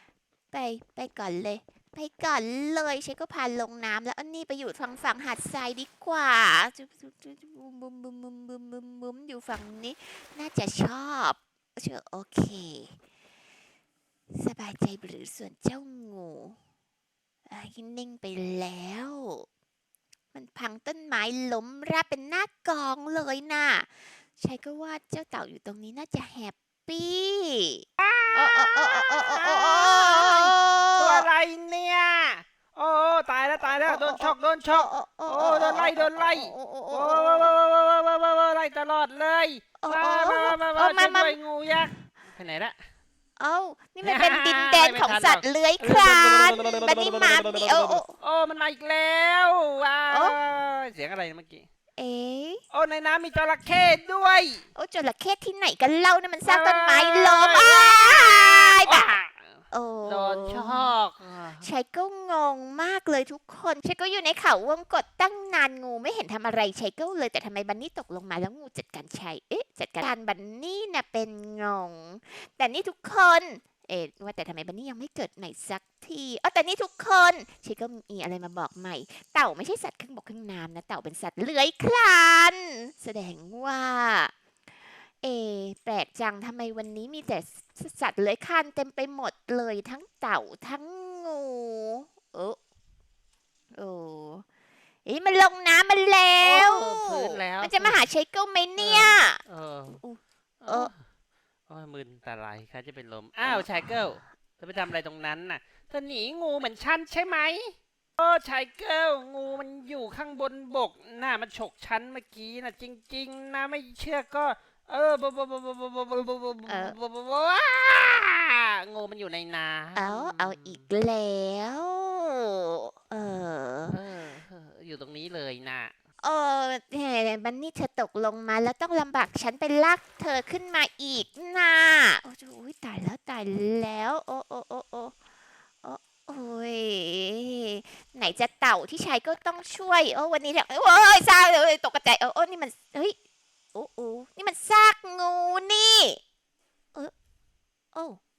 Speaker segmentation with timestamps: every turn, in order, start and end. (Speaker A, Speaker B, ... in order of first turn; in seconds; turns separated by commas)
Speaker A: 0.5-13.0, Speaker A: 14.3-16.6, Speaker A: 17.5-19.4, Speaker A: 20.3-31.3, Speaker B: 28.0-42.8, Speaker A: 33.8-37.5, Speaker A: 39.8-41.4, Speaker A: 43.4-48.2, Speaker B: 44.0-46.4, Speaker B: 48.2-51.6, Speaker A: 50.1-50.4, Speaker A: 52.0-52.6, Speaker B: 52.7-54.6, Speaker A: 54.7-59.1, Speaker B: 56.4-59.5, Speaker A: 59.7-60.9, Speaker B: 60.0-61.7, Speaker A: 61.6-84.3, Speaker A: 85.2-92.6, Speaker A: 93.7-94.4, Speaker A: 95.0-99.4, Speaker B: 96.4-98.0, Speaker B: 98.8-100.0, Speaker A: 99.9-100.9, Speaker B: 100.6-101.0, Speaker B: 101.7-120.8, Speaker A: 103.5-104.0, Speaker A: 116.7-117.0, Speaker A: 120.0-124.0, Speaker B: 123.9-125.9, Speaker A: 126.2-135.1, Speaker A: 135.8-143.2, Speaker A: 143.7-146.2, Speaker A: 147.9-148.2